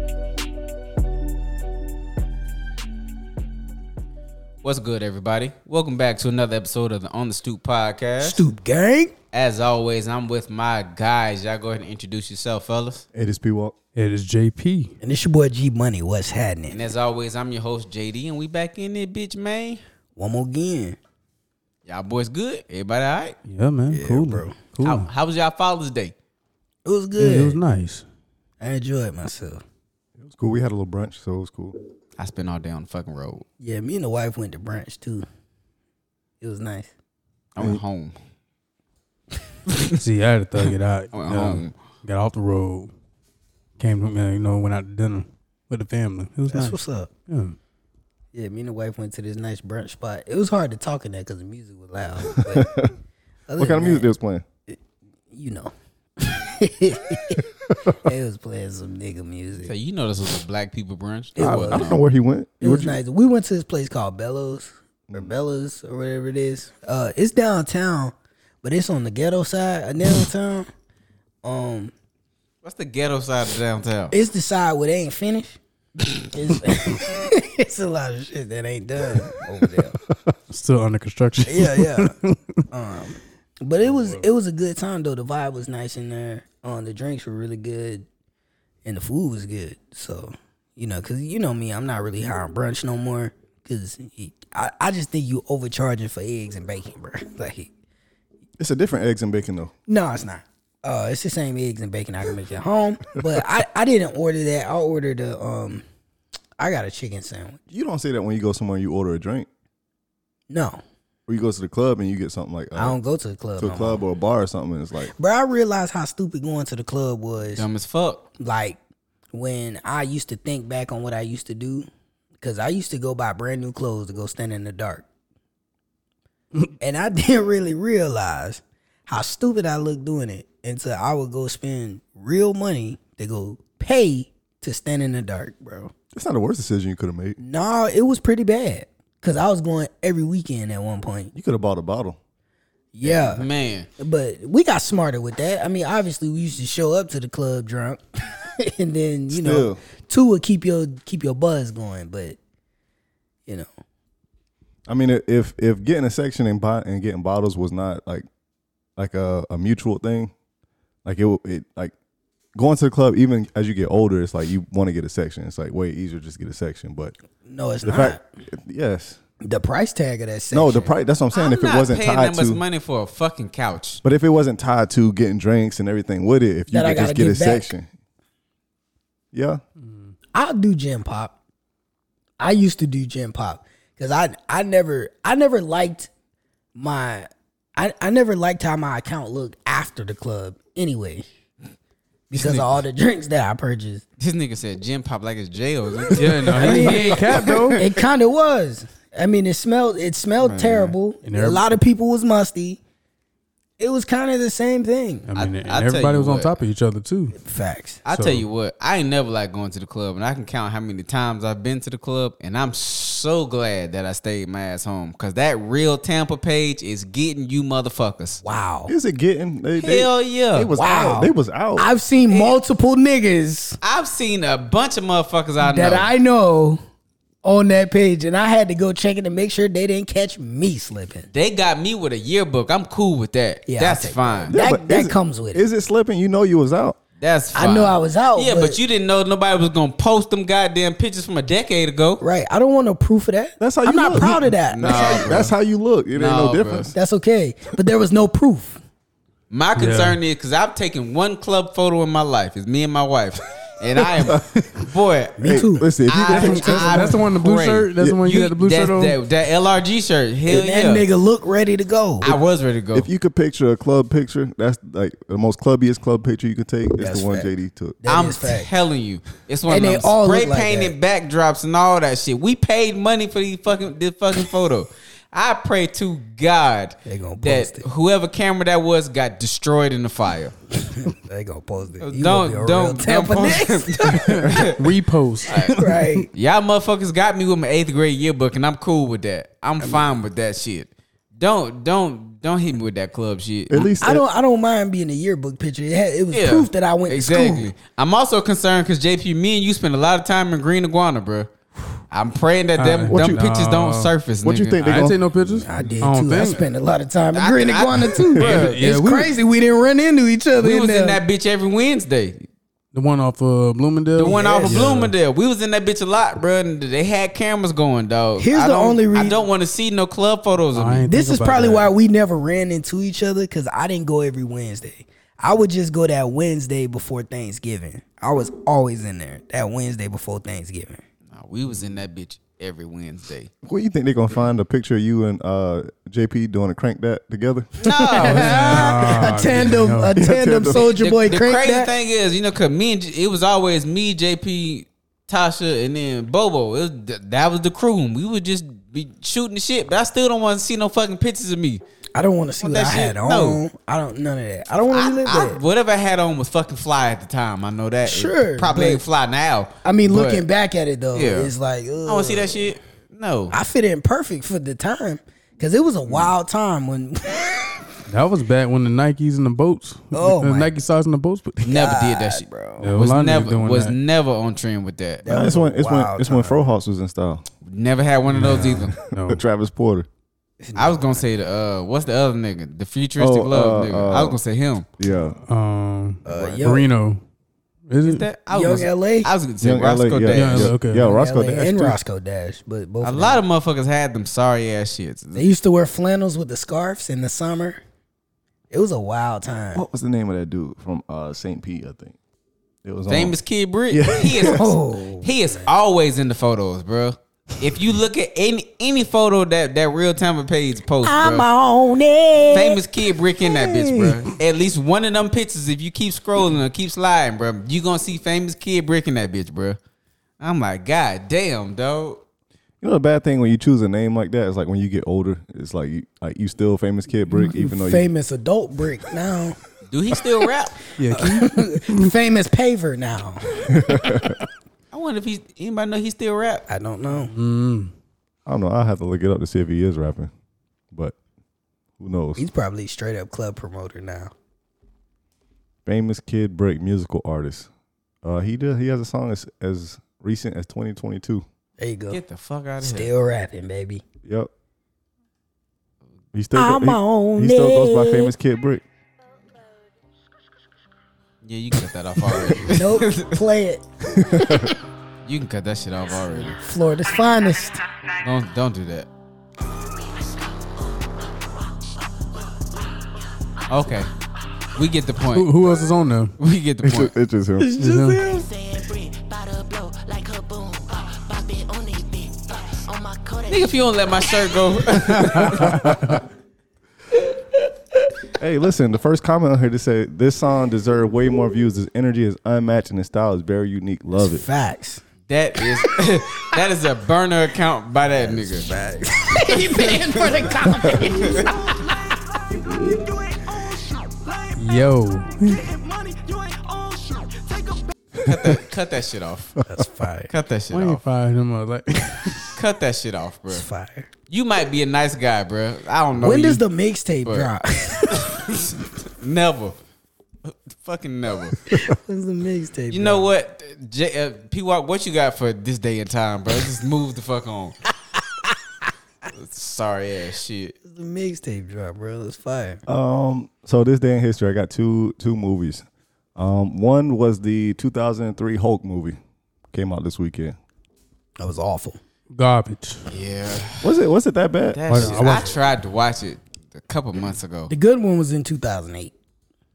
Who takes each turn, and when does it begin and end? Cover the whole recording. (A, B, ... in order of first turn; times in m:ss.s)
0:04.6-0:08.4 A
0:08.2-0:09.1 B
0:09.3-0:13.0 A
0:13.1-0:13.7 C
0:13.9-0:14.9 D
0:15.0-0:16.8 B
0:16.7-0:19.8 A
0:20.2-0:21.0 B
0:21.8-0:23.4 A
0:23.5-0:25.1 D
0:23.9-0:24.6 B
0:24.8-0:26.1 A
0:26.8-0:27.6 B
0:27.2-0:28.0 D
0:28.6-0:29.6 B
0:30.2-0:31.7 C
0:32.2-0:33.4 A
0:33.6-0:35.2 B
0:36.4-0:36.9 B
0:37.6-0:38.1 A
0:39.7-0:40.0 A
0:39.9-0:42.9 D
0:41.1-0:41.7 A
0:43.8-0:46.8 D
0:46.5-0:47.1 B
0:47.3-0:47.6 D
0:48.3-0:52.7 B
0:52.4-0:52.9 C
0:53.5-0:54.1 B
0:53.6-0:54.4 C
0:55.3-0:59.7 B
0:59.6-1:02.0 A
1:01.4-1:01.9 B
1:01.4-1:03.0 C
1:02.6-1:10.7 B
1:11.4-1:11.9 B
1:12.6-1:14.1 A
1:14.1-1:15.6 B
1:16.2-1:20.0 B
1:20.5-1:22.4 D
1:21.4-1:22.2 B
1:22.7-1:28.0 B
1:28.8-1:37.7 B
1:38.6-1:39.7 C
1:39.9-1:45.8 B
1:46.6-1:47.6 B
1:47.7-1:49.5 C
1:50.5-1:50.8 B
1:51.3-1:53.0 C
1:52.7-1:54.0 B
1:53.6-1:55.1 C
1:55.2-1:57.6 B
1:57.6-1:58.2 A
1:58.4-1:58.8 B
1:59.3-2:01.9 B
2:02.4-2:05.0 B
2:06.8-2:15.9 B
2:16.1-2:17.4 C
2:17.4-2:21.3 B
2:21.3-2:22.2 C
2:22.9-2:23.4 B
2:23.0-2:23.9 A
2:24.0-2:32.4 B
2:29.3-2:29.8 C
2:34.9-2:38.2 C
2:39.0-2:40.3 C
2:41.0-2:41.9 C
2:42.5-2:47.1 C
2:47.4-2:48.2 B
2:47.8-2:49.2 C
2:49.4-2:50.9 B
2:50.5-2:52.6 C
2:51.3-2:54.0 A
2:54.0-2:57.9 C
2:56.7-2:57.7 B
2:59.3-2:59.6 C
3:00.3-3:01.3 B
3:02.4-3:06.1 B
3:06.8-3:11.2 B
3:12.3-3:14.0 B
3:12.3-3:12.7 A
3:14.2-3:17.8 A
3:16.1-3:17.8 D
3:16.5-3:22.8 B
3:20.4-3:20.9 A
3:21.2-3:21.7 D
3:23.8-3:25.3 B
3:25.3-3:27.4 D
3:25.4-3:26.6 A
3:27.4-3:28.0 B
3:28.0-3:38.4 A
3:28.1-3:28.4 D
3:38.4-3:38.9 B
3:38.9-3:41.9 C
3:39.8-3:40.7 A
3:40.8-3:43.8 B
3:42.3-3:42.6 A
3:43.8-3:46.1 A
3:45.6-3:46.8 B
3:47.4-3:51.3 B
3:51.3-3:54.6 A
3:53.7-3:55.6 B
3:54.5-3:57.0 C
3:57.2-4:02.2 A
3:57.5-3:58.8 B
4:02.2-4:05.5 B
4:03.6-4:06.9 C
4:04.7-4:05.5 A
4:06.1-4:06.9 A
4:06.9-4:08.8 B
4:09.5-4:21.0 A
4:09.8-4:10.2 D
4:14.1-4:14.7 C
4:15.4-4:17.2 B
4:15.4-4:16.8 C
4:16.3-4:19.2 D
4:18.0-4:18.2 C
4:20.5-4:22.3 B
4:22.2-4:23.1 A
4:22.9-4:28.0 C
4:27.0-4:28.7 B
4:28.1-4:40.6 A
4:29.7-4:30.9 B
4:37.0-4:37.8 B
4:40.9-4:44.7 B
4:42.0-4:53.9 A
4:44.2-4:46.2 D
4:45.7-4:46.3 B
4:53.7-4:54.2 C
4:54.0-4:57.7 B
4:56.3-5:01.5 A
5:02.1-5:05.1 A
5:02.8-5:04.1 D
5:03.1-5:03.4 C
5:04.4-5:05.6 C
5:04.8-5:06.6 D
5:05.6-5:11.2 B
5:07.3-5:08.8 A
5:08.4-5:08.6 C
5:08.4-5:09.3 D
5:10.6-5:12.4 A
5:12.9-5:15.1 D
5:14.2-5:21.1 A
5:14.2-5:14.8 B
5:18.4-5:19.4 B
5:20.7-5:21.9 D
5:21.1-5:31.0 B
5:31.3-5:33.5 A
5:33.6-5:38.0 C
5:37.8-5:39.5 A
5:38.1-5:41.9 B
5:38.2-5:40.2 D
5:40.1-5:40.9 C
5:40.7-5:51.8 A
5:52.1-5:55.6 B
5:52.6-5:53.6 A
5:54.9-6:00.4 A
5:58.0-5:59.0 B
5:59.8-6:02.7 B
6:01.1-6:01.5 A
6:02.0-6:03.5 A
6:03.5-6:07.7 B
6:08.1-6:11.7 D
6:10.1-6:10.7 B
6:11.6-6:13.0 B
6:11.6-6:15.2 A
6:12.8-6:14.0 D
6:15.2-6:16.7 B
6:15.2-6:17.4 C
6:17.6-6:18.9 A
6:18.3-6:19.4 D
6:19.2-6:20.1 C
6:20.6-6:21.2 B
6:20.7-6:24.8 A
6:23.2-6:24.4 C
6:25.0-6:25.4 C
6:25.5-6:27.2 D
6:26.2-6:26.9 B
6:26.3-6:26.6 C
6:27.9-6:28.2 D
6:28.0-6:30.7 A
6:28.5-6:29.3 B
6:29.6-6:32.0 C
6:30.3-6:31.1 D
6:31.0-6:33.4 B
6:33.0-6:35.4 A
6:35.3-6:37.8 B
6:38.7-6:39.8 B
6:39.7-6:42.2 C
6:42.8-6:43.4 C
6:43.1-6:51.5 A
6:43.9-6:44.7 C
6:44.4-6:45.7 B
6:51.0-6:52.8 B
6:52.5-6:59.8 A
6:53.5-6:54.1 B
7:00.4-7:02.2 A
7:02.8-7:08.1 C
7:07.7-7:09.6 B
7:09.9-7:10.8 A
7:11.0-7:12.1 D
7:11.1-7:13.7 B
7:13.7-7:14.4 C
7:14.9-7:16.6 A
7:16.7-7:17.3 B
7:17.2-7:17.9 D
7:18.4-7:20.3 C
7:22.0-7:22.4 C
7:22.4-7:24.3 B
7:25.8-7:27.7 C
7:28.2-7:31.4 C
7:31.8-7:32.2 B
7:32.1-7:33.1 A
7:32.8-7:34.0 B
7:34.2-7:34.5 C
7:36.3-7:38.8 C
7:36.5-7:38.3 B
7:41.4-7:43.4 A
7:42.6-7:44.8 B
7:44.1-7:44.7 C
7:45.2-7:46.6 A
7:46.6-7:47.8 B
7:48.2-7:49.1 A
7:53.7-7:54.1 A
7:54.7-7:55.5 A
7:55.3-7:56.3 D
7:56.4-7:57.1 A
7:56.8-7:57.7 C
7:57.7-7:58.3 D
7:57.8-8:04.7 E
7:57.9-7:58.2 A
8:03.5-8:06.1 A
8:05.2-8:06.2 D
8:08.4-8:14.4 C
8:14.1-8:15.0 B
8:15.3-8:18.7 A
8:15.7-8:16.2 B
8:18.1-8:21.8 B
8:19.5-8:21.5 A
8:20.8-8:22.6 E
8:23.2-8:24.5 E
8:24.6-8:25.6 D
8:25.6-8:27.9 E
8:28.2-8:29.6 A
8:29.7-8:30.3 B
8:30.3-8:31.0 A
8:30.7-8:32.5 D
8:32.6-8:33.6 A
8:33.5-8:34.1 B
8:34.3-8:36.6 A
8:36.2-8:38.4 B
8:37.2-8:37.5 A
8:38.1-8:39.8 A
8:40.4-8:41.7 A
8:41.7-8:43.3 B
8:42.9-8:47.8 A
8:49.3-8:50.8 A
8:50.8-8:52.8 B
8:52.8-8:55.8 C
8:56.4-8:59.2 C
8:59.7-9:00.6 C
9:01.4-9:02.0 B
9:02.3-9:03.0 D
9:03.1-9:03.9 A
9:03.8-9:05.2 C
9:04.7-9:07.7 A
9:04.9-9:05.5 D
9:07.7-9:09.1 B